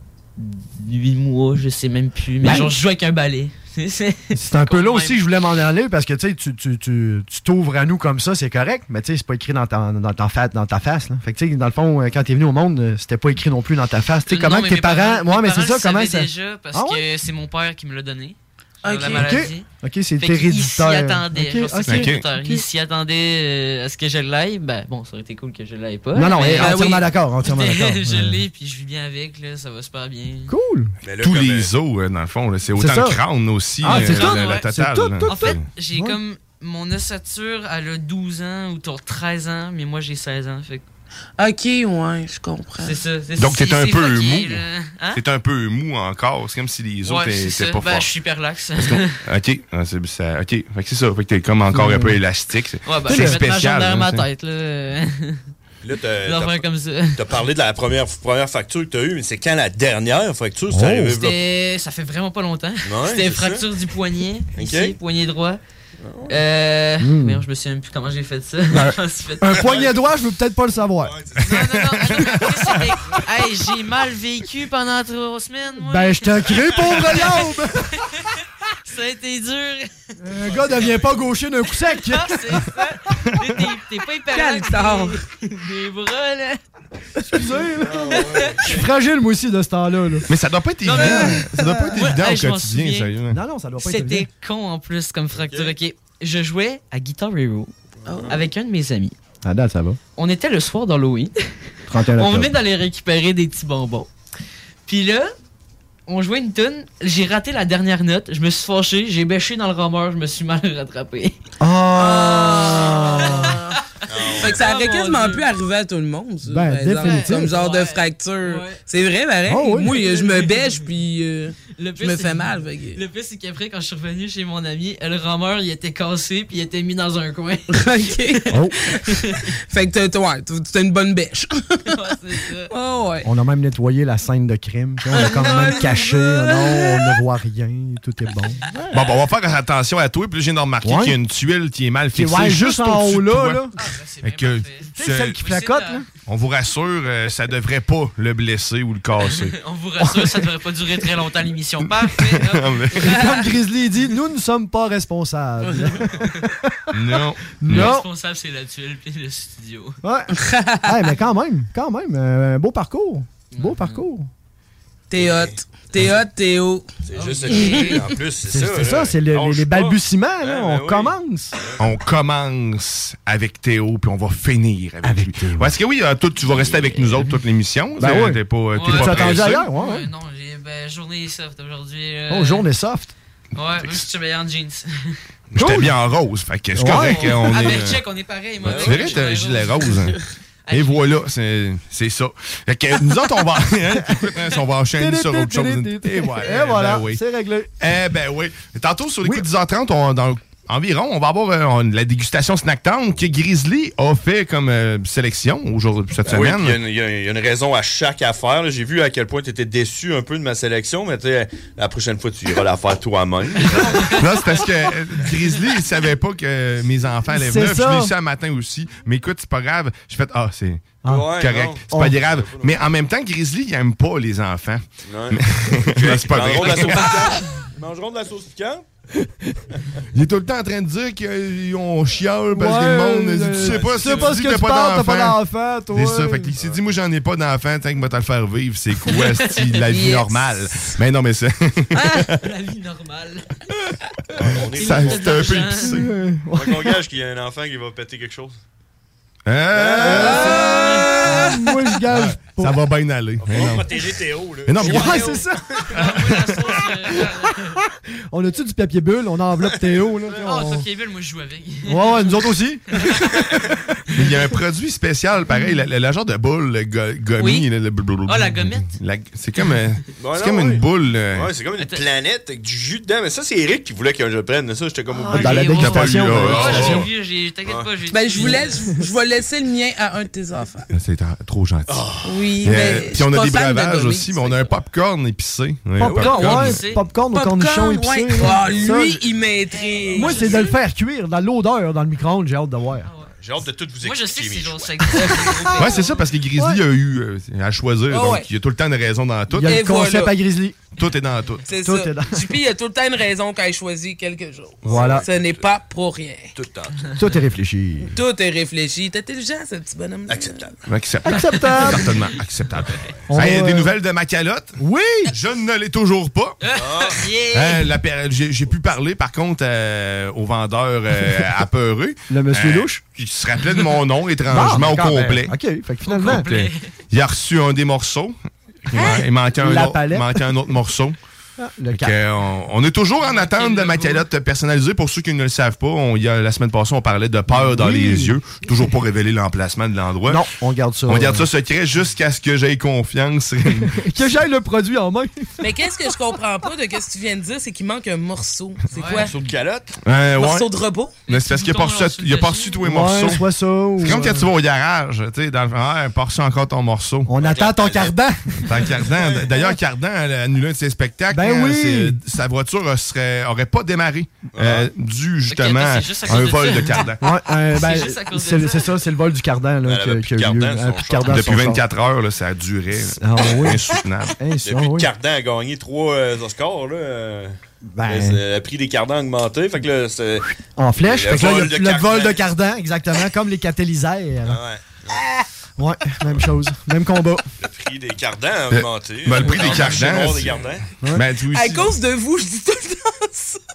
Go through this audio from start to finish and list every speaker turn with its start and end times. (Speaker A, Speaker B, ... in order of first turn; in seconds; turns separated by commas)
Speaker A: 0.4-5.2, Speaker B: 2.4-2.7, Speaker B: 4.3-17.0, Speaker A: 14.3-19.7, Speaker C: 18.8-19.3, Speaker B: 19.1-22.6, Speaker A: 20.2-30.5, Speaker D: 21.9-22.2, Speaker B: 26.1-28.4, Speaker C: 26.6-27.0, Speaker B: 30.5-30.9, Speaker E: 31.0-31.7, Speaker D: 31.2-35.7, Speaker B: 32.8-33.2, Speaker B: 33.8-36.2, Speaker A: 33.8-34.7, Speaker A: 35.3-40.8, Speaker C: 41.4-43.0, Speaker A: 42.8-45.2, Speaker D: 43.4-44.6, Speaker D: 45.1-48.1, Speaker A: 47.0-49.2, Speaker D: 48.8-54.2, Speaker B: 51.7-52.1, Speaker A: 52.9-55.5, Speaker B: 53.1-53.4, Speaker E: 55.8-61.4, Speaker A: 56.2-57.2, Speaker B: 60.7-61.2, Speaker A: 61.1-65.6, Speaker E: 62.8-63.6, Speaker E: 64.5-64.9, Speaker E: 66.0-66.3, Speaker A: 66.3-69.8, Speaker B: 67.0-67.4, Speaker B: 68.7-71.1, Speaker E: 69.6-69.9, Speaker E: 71.0-71.6, Speaker A: 71.4-79.9, Speaker B: 75.8-77.9, Speaker B: 80.2-82.7, Speaker E: 80.5-81.2, Speaker A: 82.0-86.6, Speaker C: 84.3-85.2, Speaker B: 87.2-90.2, Speaker E: 87.7-88.8, Speaker D: 90.3-93.4, Speaker A: 90.8-91.3, Speaker B: 91.0-91.9, Speaker A: 91.9-93.1, Speaker B: 93.3-94.3, Speaker A: 93.8-97.7, Speaker E: 95.3-95.8, Speaker E: 98.0-98.4, Speaker C: 98.1-98.3, Speaker A: 98.3-99.1, Speaker B: 99.4-100.0, Speaker A: 100.2-101.3, Speaker B: 101.9-102.5, Speaker A: 102.2-104.1, Speaker A: 104.9-105.3, Speaker A: 106.1-111.4, Speaker B: 111.6-113.6, Speaker C: 112.0-113.8, Speaker A: 112.2-113.6, Speaker E: 114.1-114.8, Speaker C: 114.4-123.0, Speaker A: 114.4-115.5, Speaker B: 116.5-117.5, Speaker A: 117.0-118.8, Speaker B: 119.5-120.3, Speaker A: 120.0-120.9, Speaker A: 121.7-127.8, Speaker C: 127.7-128.5, Speaker B: 128.5-128.8, Speaker C: 129.7-131.8, Speaker A: 131.9-132.7, Speaker C: 132.7-133.3, Speaker B: 133.2-138.6, Speaker A: 135.1-136.4, Speaker C: 135.3-136.1, Speaker D: 138.9-143.6, Speaker B: 140.8-141.1, Speaker B: 142.1-143.7, Speaker A: 143.8-146.0, Speaker D: 144.2-145.4, Speaker B: 144.9-146.1, Speaker D: 146.2-149.6, Speaker A: 149.2-153.4, Speaker D: 151.8-153.3, Speaker B: 153.0-156.7, Speaker C: 155.7-155.9, Speaker D: 156.9-158.0, Speaker B: 157.6-158.1, Speaker A: 157.7-160.0, Speaker B: 160.0-164.3, Speaker C: 160.4-160.9, Speaker A: 163.5-164.0, Speaker C: 165.1-166.9, Speaker E: 165.2-165.5, Speaker E: 167.1-171.8, Speaker A: 167.1-168.1, Speaker C: 167.5-168.1, Speaker B: 168.5-171.5, Speaker D: 171.8-179.6, Speaker B: 175.0-175.7, Speaker B: 178.0-180.1, Speaker A: 178.7-182.6, Speaker B: 182.3-183.1, Speaker A: 183.5-185.1, Speaker D: 185.5-188.0, Speaker B: 185.6-185.9, Speaker B: 186.7-187.9, Speaker A: 186.9-190.0, Speaker E: 188.6-189.2, Speaker D: 188.6-190.2, Speaker A: 190.7-191.1, Speaker D: 190.7-197.2, Speaker B: 195.0-197.7, Speaker D: 197.8-206.8, Speaker E: 206.2-214.1, Speaker D: 214.1-227.3, Speaker B: 217.3-218.1, Speaker E: 221.1-222.7, Speaker B: 221.9-222.2, Speaker E: 225.1-228.8, Speaker D: 230.1-235.4, Speaker B: 232.5-236.5, Speaker E: 233.6-234.4, Speaker D: 235.9-242.3, Speaker A: 239.1-239.7, Speaker C: 239.9-240.3, Speaker A: 241.9-243.6, Speaker E: 244.3-245.7, Speaker D: 244.7-246.1, Speaker A: 244.8-245.9, Speaker B: 245.9-247.0, Speaker E: 246.5-248.6, Speaker D: 249.4-250.7, Speaker E: 249.7-250.8, Speaker B: 250.0-252.8, Speaker A: 250.3-251.4, Speaker D: 252.1-253.9, Speaker E: 253.4-255.4, Speaker D: 254.7-255.2, Speaker B: 254.8-255.6, Speaker A: 254.8-257.8, Speaker D: 256.0-256.6, Speaker B: 258.3-260.9, Speaker A: 260.4-262.4, Speaker B: 261.9-264.2, Speaker D: 264.1-271.5, Speaker A: 268.3-268.9, Speaker E: 270.2-275.9, Speaker A: 275.1-278.9, Speaker B: 275.3-277.0, Speaker D: 275.7-277.0, Speaker E: 276.5-277.1, Speaker E: 277.6-277.9, Speaker C: 278.1-280.9, Speaker D: 280.9-282.1, Speaker E: 281.9-282.5, Speaker C: 282.2-284.3, Speaker D: 282.6-286.8, Speaker B: 286.0-289.2, Speaker A: 286.2-287.0, Speaker C: 287.3-290.7, Speaker E: 288.6-289.1, Speaker A: 290.1-290.5, Speaker B: 290.1-293.1, Speaker A: 293.0-293.3, Speaker E: 293.4-295.7, Speaker A: 294.0-296.1, Speaker B: 295.4-296.0, Speaker D: 295.8-299.8, Speaker C: 298.1-298.5, Speaker B: 299.5-300.8, Speaker C: 299.6-300.3, Speaker D: 300.9-301.6, Speaker C: 301.7-306.5, Speaker B: 301.8-302.4, Speaker E: 304.8-305.7, Speaker B: 304.9-305.2, Speaker E: 306.5-307.1, Speaker B: 307.1-308.1, Speaker C: 308.1-310.7, Speaker E: 310.3-310.7, Speaker D: 310.9-314.8, Speaker B: 311.2-312.1, Speaker B: 313.3-313.9, Speaker B: 314.8-315.3, Speaker D: 315.3-316.6, Speaker A: 316.6-317.8, Speaker E: 316.7-317.2, Speaker D: 317.5-325.5, Speaker B: 322.3-323.0, Speaker B: 324.5-326.4, Speaker A: 326.1-326.7, Speaker D: 326.2-331.1, Speaker B: 328.9-330.5, Speaker B: 331.6-332.1, Speaker D: 331.9-340.4, Speaker A: 333.2-334.2, Speaker B: 337.5-338.3, Speaker B: 340.2-341.5, Speaker D: 341.1-344.0, Speaker B: 343.8-345.3, Speaker C: 345.6-349.3, Speaker A: 348.9-349.3, Speaker E: 349.1-350.0, Speaker D: 350.0-350.7, Speaker C: 350.4-351.1, Speaker A: 351.3-352.8, Speaker D: 351.3-353.4, Speaker B: 352.8-354.5, Speaker D: 354.0-357.3, Speaker B: 357.3-358.8, Speaker E: 357.3-358.1, Speaker D: 358.7-367.2, Speaker E: 359.1-359.6, Speaker B: 361.3-362.2, Speaker E: 364.5-364.9, Speaker A: 365.5-367.1, Speaker B: 367.2-371.8, Speaker A: 367.7-368.9, Speaker E: 369.8-371.4, Speaker D: 371.2-374.3, Speaker B: 373.2-373.8, Speaker B: 374.4-375.1, Speaker E: 374.6-377.5, Speaker B: 377.9-378.4, Speaker E: 378.1-380.5, Speaker B: 380.8-384.6, Speaker E: 381.0-382.4, Speaker E: 384.5-385.2, Speaker B: 385.8-387.4, Speaker E: 387.6-390.9, Speaker D: 388.7-391.9, Speaker C: 391.5-393.6